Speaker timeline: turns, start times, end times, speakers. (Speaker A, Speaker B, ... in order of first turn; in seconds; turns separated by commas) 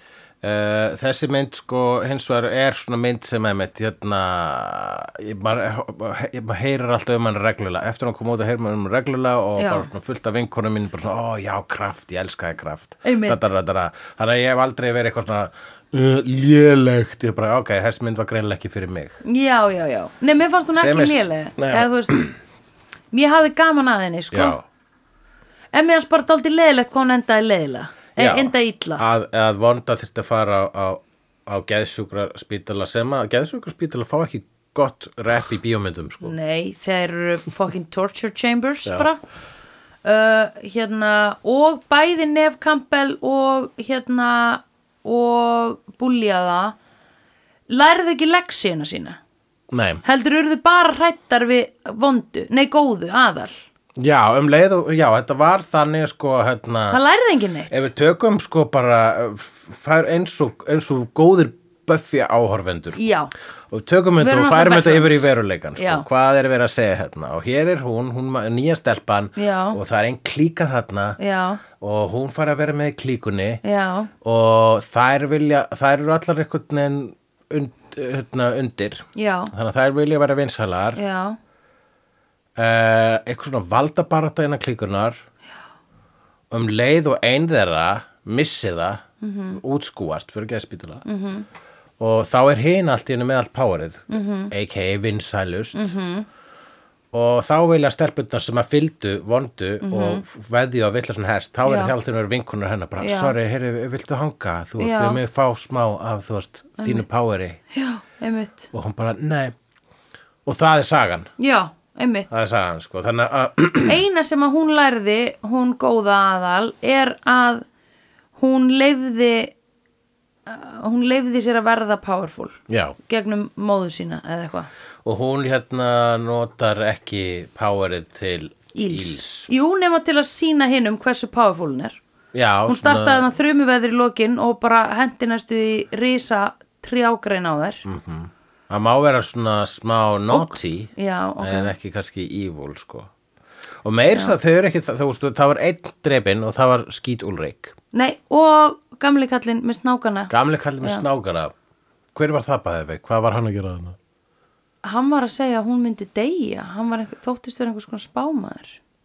Speaker A: 0.4-19.2, Speaker B: 9.6-9.9, Speaker B: 13.0-13.4, Speaker B: 19.2-22.3, Speaker A: 20.8-22.3, Speaker B: 23.1-24.6, Speaker A: 24.3-24.6, Speaker B: 25.7-29.0, Speaker A: 28.2-36.4, Speaker B: 36.2-39.2, Speaker B: 40.0-46.8, Speaker B: 47.7-49.2, Speaker A: 49.7-50.0, Speaker B: 50.0-53.7, Speaker A: 54.0-57.0, Speaker B: 56.9-57.9, Speaker A: 57.7-63.0, Speaker B: 63.0-63.3, Speaker A: 63.7-71.2, Speaker B: 64.2-66.0, Speaker B: 69.4-69.8, Speaker B: 71.2-71.6, Speaker A: 71.8-73.6, Speaker B: 73.6-74.1, Speaker A: 74.2-81.0, Speaker B: 79.2-79.5, Speaker B: 81.0-81.4, Speaker A: 82.6-85.2, Speaker A: 86.5-89.0, Speaker B: 89.2-89.6, Speaker A: 89.5-91.1, Speaker B: 91.1-91.5, Speaker A: 92.0-95.9, Speaker B: 94.1-94.5, Speaker B: 95.7-96.3, Speaker A: 97.1-107.6, Speaker B: 99.8-100.2, Speaker B: 101.7-102.0, Speaker B: 103.0-103.3, Speaker B: 104.8-105.2, Speaker B: 106.8-107.1, Speaker B: 107.7-108.7, Speaker A: 108.7-109.5, Speaker A: 110.5-111.3, Speaker B: 111.4-112.4, Speaker A: 112.3-114.0, Speaker B: 113.9-117.7, Speaker B: 118.4-119.5, Speaker B: 120.5-124.7, Speaker A: 122.7-123.0, Speaker A: 125.0-129.5, Speaker B: 128.7-132.0, Speaker A: 132.3-133.3, Speaker B: 132.7-137.8, Speaker A: 137.8-143.1, Speaker B: 140.3-141.7, Speaker A: 143.8-147.8, Speaker B: 144.1-144.4, Speaker B: 147.9-151.1, Speaker A: 150.3-151.5, Speaker A: 152.2-154.0, Speaker B: 154.8-158.8